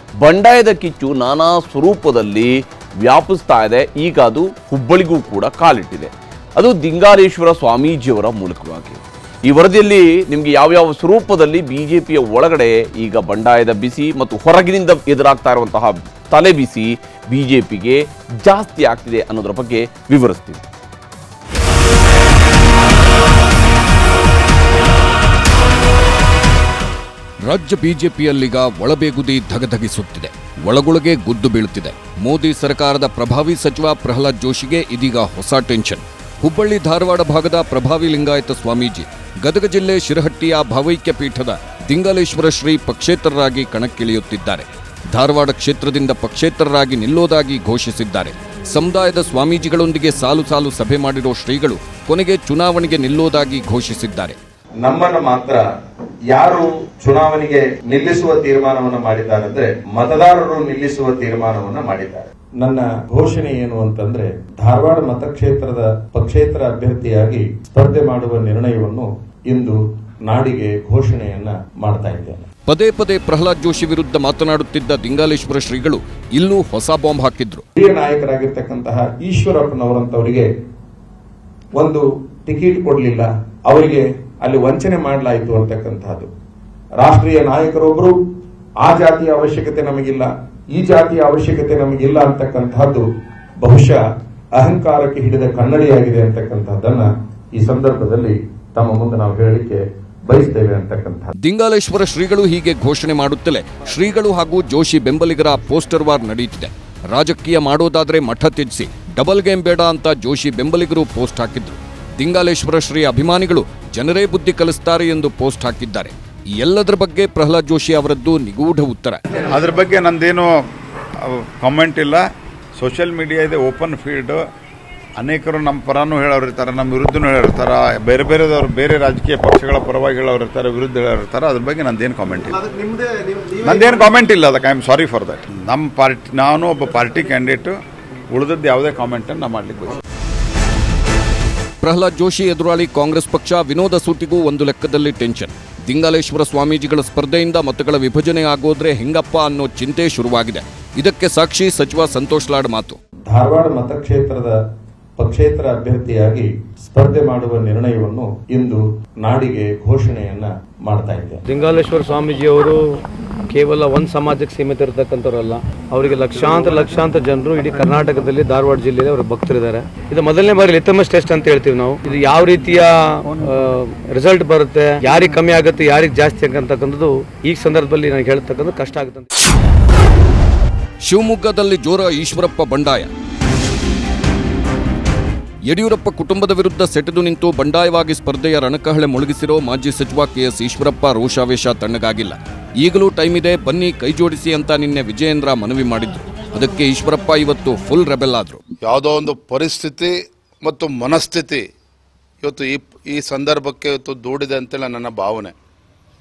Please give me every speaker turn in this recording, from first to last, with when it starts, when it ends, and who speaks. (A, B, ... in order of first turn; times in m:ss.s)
0:00.2-0:20.6 A
0:27.5-0:54.4 B
0:54.8-0:55.6 C
0:56.3-1:12.5 C
1:12.7-1:17.6 B
1:17.8-1:20.5 C
1:21.8-1:26.3 C
1:27.0-1:28.2 C
1:28.8-1:33.0 C
1:33.6-1:34.0 C
1:34.6-1:41.3 C
1:41.4-1:59.2 B
1:59.5-2:00.5 D
2:01.3-2:02.2 D
2:02.8-2:04.4 D
2:05.2-2:12.6 D
2:13.6-2:17.8 D
2:18.3-2:20.0 D
2:21.8-2:33.0 B
2:33.3-2:34.5 C
2:35.2-2:41.4 C
2:41.5-2:59.3 E
3:01.0-3:03.1 B
3:05.7-3:18.6 B
3:18.8-3:21.6 F
3:22.4-3:25.5 F